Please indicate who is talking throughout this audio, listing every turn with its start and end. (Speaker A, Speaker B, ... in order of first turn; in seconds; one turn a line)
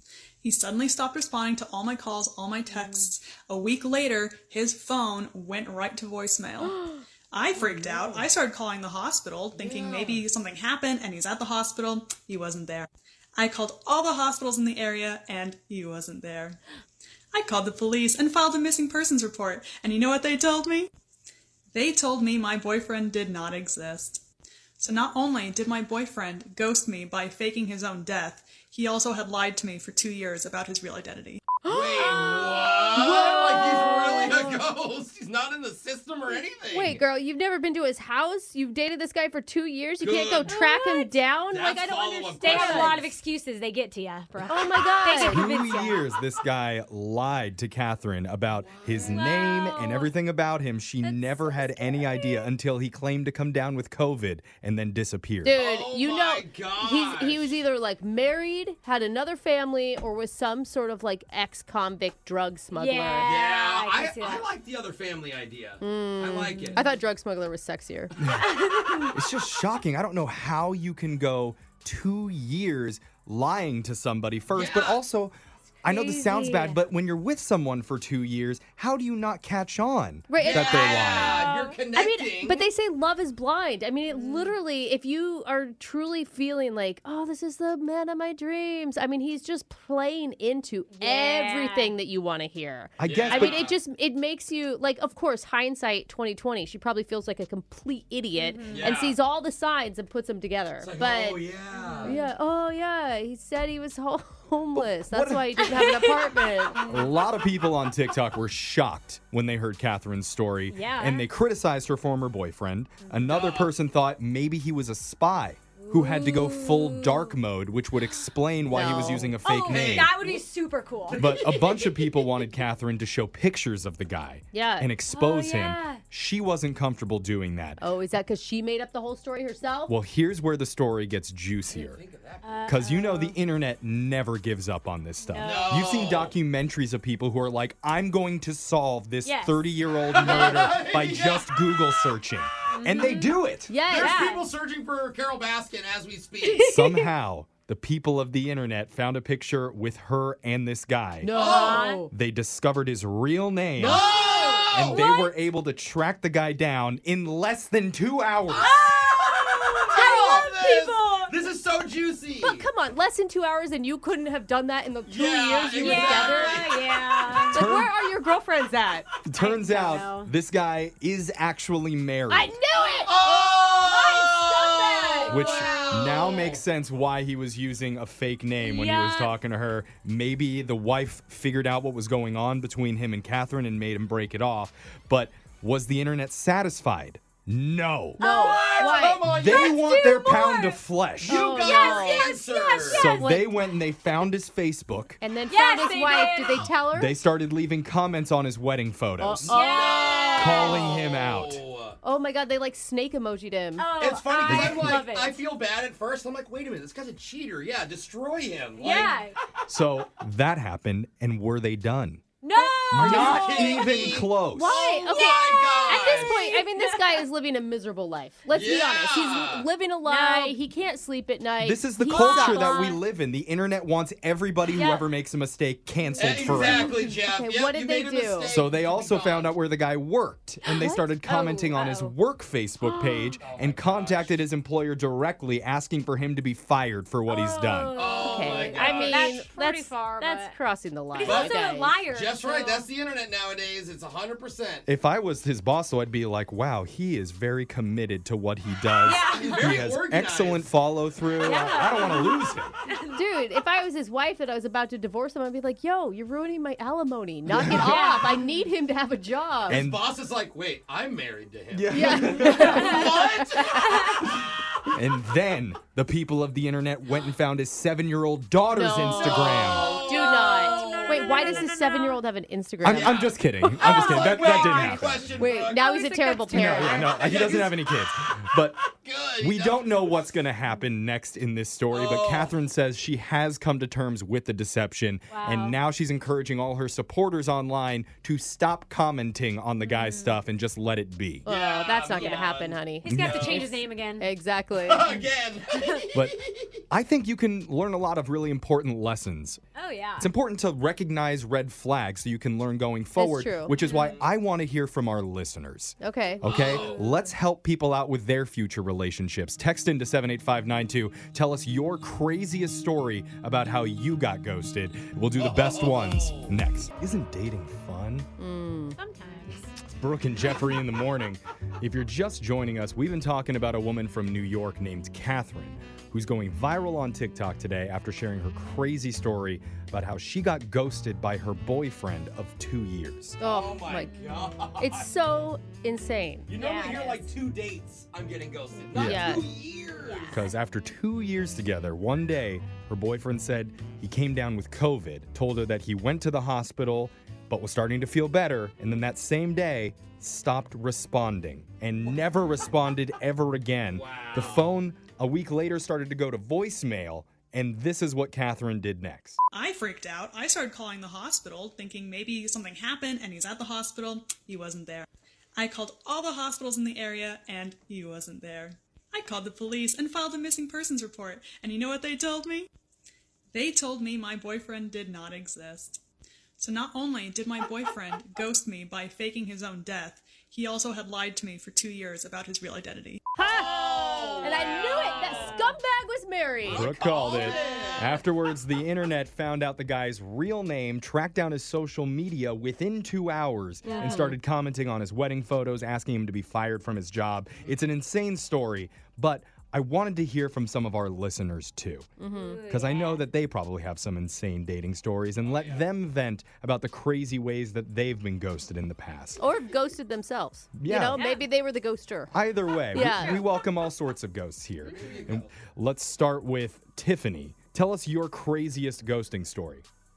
Speaker A: 0.4-16.6
Speaker B: 6.6-7.0
Speaker C: 7.5-8.3
Speaker C: 9.6-10.2
Speaker A: 17.3-20.9
Speaker A: 21.7-24.2
Speaker A: 24.8-31.4
Speaker B: 31.6-34.5
Speaker C: 31.7-37.0
Speaker B: 36.7-43.0
Speaker C: 40.0-40.8
Speaker D: 40.4-41.1
Speaker C: 41.5-43.1
Speaker D: 42.4-46.1
Speaker B: 44.5-45.5
Speaker E: 45.2-55.5
Speaker C: 48.5-49.1
Speaker D: 49.0-50.1
Speaker D: 51.0-52.5
Speaker B: 55.4-63.3
Speaker C: 55.5-57.6
Speaker D: 62.7-64.5
Speaker C: 63.2-67.0
Speaker B: 65.8-68.1
Speaker D: 66.4-66.8
Speaker D: 68.3-69.0
Speaker E: 69.0-81.3
Speaker C: 74.5-75.0
Speaker B: 75.8-76.8
Speaker D: 75.9-76.4
Speaker B: 80.3-101.5
Speaker C: 80.3-82.7
Speaker D: 81.2-81.8
Speaker D: 84.1-84.6
Speaker D: 90.9-91.9
Speaker E: 93.0-93.6
Speaker C: 93.0-93.8
Speaker D: 98.4-98.9
Speaker C: 98.7-99.2
Speaker C: 100.8-102.2
Speaker D: 101.7-102.3
Speaker B: 102.0-106.8
Speaker E: 104.7-105.7
Speaker D: 105.7-107.1
Speaker E: 106.9-120.1
Speaker D: 110.7-111.2
Speaker C: 113.2-113.7
Speaker D: 115.8-117.3
Speaker B: 118.7-119.3
Speaker D: 118.7-121.2
Speaker C: 118.8-120.4
Speaker C: 121.1-122.2
Speaker E: 121.1-127.8
Speaker B: 124.5-124.9
Speaker D: 125.1-126.0
Speaker B: 127.8-129.9
Speaker E: 129.9-132.0
Speaker C: 131.7-132.7
Speaker D: 132.4-133.3
Speaker E: 132.7-143.7
Speaker D: 135.2-136.0
Speaker C: 135.4-136.3
Speaker D: 139.2-139.7
Speaker C: 140.1-142.1
Speaker D: 142.7-143.4
Speaker B: 143.7-144.3
Speaker C: 143.8-146.7
Speaker D: 143.9-144.4
Speaker E: 146.6-151.3
Speaker B: 151.2-152.1
Speaker C: 151.3-151.9
Speaker D: 151.3-152.0
Speaker E: 152.1-154.0
Speaker C: 153.8-155.0
Speaker B: 153.8-155.0
Speaker E: 154.7-158.7
Speaker C: 158.5-162.7
Speaker D: 158.6-161.3
Speaker B: 162.4-166.7
Speaker C: 165.1-167.6
Speaker D: 165.8-167.5
Speaker B: 167.5-169.1
Speaker E: 167.5-167.9
Speaker E: 169.2-172.5
Speaker D: 169.3-170.3
Speaker B: 172.3-173.3
Speaker C: 173.0-176.6
Speaker B: 173.8-175.5
Speaker D: 175.2-176.0
Speaker E: 175.3-188.2
Speaker D: 178.6-179.3
Speaker C: 188.2-189.8
Speaker D: 188.2-190.8
Speaker B: 188.2-189.2
Speaker E: 189.3-191.4
Speaker C: 191.2-193.1
Speaker B: 191.3-193.7
Speaker D: 191.5-193.3
Speaker E: 192.9-195.2
Speaker B: 195.2-197.2
Speaker D: 195.5-196.7
Speaker E: 196.8-199.6
Speaker B: 199.2-199.6
Speaker C: 199.4-202.0
Speaker D: 199.5-201.0
Speaker E: 200.3-201.6
Speaker B: 202.0-203.9
Speaker D: 203.8-205.4
Speaker C: 203.9-209.2
Speaker E: 204.4-205.0
Speaker D: 208.8-209.3
Speaker E: 209.7-212.2
Speaker D: 212.4-214.0
Speaker E: 212.9-214.7
Speaker C: 212.9-216.5
Speaker B: 213.1-213.9
Speaker B: 214.5-222.7
Speaker D: 215.3-217.2
Speaker C: 218.5-219.7
Speaker D: 220.0-220.6
Speaker E: 221.6-226.9
Speaker D: 222.1-223.0
Speaker D: 224.7-225.1
Speaker C: 226.1-229.5
Speaker B: 226.2-228.6
Speaker E: 228.4-238.0
Speaker B: 230.7-231.1
Speaker D: 231.2-232.1
Speaker D: 232.8-233.3
Speaker C: 233.4-234.5
Speaker D: 237.3-240.6
Speaker C: 237.9-239.5
Speaker B: 238.2-242.0
Speaker D: 241.1-242.9
Speaker C: 241.2-244.8
Speaker E: 244.9-252.7
Speaker D: 249.0-249.7
Speaker C: 249.2-250.7
Speaker C: 251.4-252.5
Speaker D: 251.4-253.2
Speaker B: 253.1-259.8
Speaker E: 257.5-257.8
Speaker D: 257.7-258.5
Speaker C: 259.6-264.4
Speaker E: 259.7-260.0
Speaker E: 261.7-262.9
Speaker B: 261.9-263.6
Speaker D: 262.5-263.1
Speaker D: 263.8-264.3
Speaker E: 264.9-269.9
Speaker B: 268.7-277.2
Speaker D: 269.0-272.2
Speaker C: 269.2-271.7
Speaker E: 272.8-275.2
Speaker C: 272.8-280.4
Speaker E: 276.5-278.8
Speaker E: 279.4-291.5
Speaker C: 281.9-282.5
Speaker D: 285.3-285.8
Speaker D: 289.8-290.4
Speaker C: 291.4-293.7
Speaker B: 291.5-293.2
Speaker D: 292.1-292.5
Speaker D: 293.0-294.3
Speaker E: 293.1-293.7
Speaker B: 294.2-295.1
Speaker C: 294.7-296.8
Speaker D: 295.1-296.0
Speaker E: 296.9-299.6
Speaker D: 299.7-300.3
Speaker E: 300.2-318.3
Speaker B: 303.1-303.8
Speaker C: 303.8-304.3
Speaker D: 303.8-304.1
Speaker B: 306.0-306.6
Speaker C: 306.4-307.1
Speaker D: 306.7-307.2
Speaker C: 315.3-316.6
Speaker B: 318.4-319.0
Speaker D: 319.0-319.7
Speaker E: 320.0-333.4
Speaker C: 333.4-335.1
Speaker B: 333.4-336.5
Speaker C: 336.5-340.4
Speaker D: 336.6-337.2
Speaker E: 338.9-339.4
Speaker B: 339.0-339.5
Speaker D: 339.9-340.4
Speaker E: 340.3-359.4
Speaker C: 353.9-354.7
Speaker A: 359.5-372.7
Speaker A: 373.5-376.0
Speaker A: 376.6-383.2
Speaker B: 383.4-386.9
Speaker C: 383.4-385.7
Speaker C: 386.6-388.2
Speaker E: 386.7-402.1
Speaker B: 393.8-394.4
Speaker D: 393.9-394.2
Speaker B: 402.2-402.6
Speaker D: 402.3-403.2
Speaker E: 402.7-409.4
Speaker C: 405.4-405.9
Speaker B: 409.4-412.3
Speaker E: 410.7-411.2
Speaker D: 411.1-411.5
Speaker E: 412.3-419.8
Speaker B: 412.9-413.4
Speaker D: 413.0-413.4
Speaker C: 414.8-415.6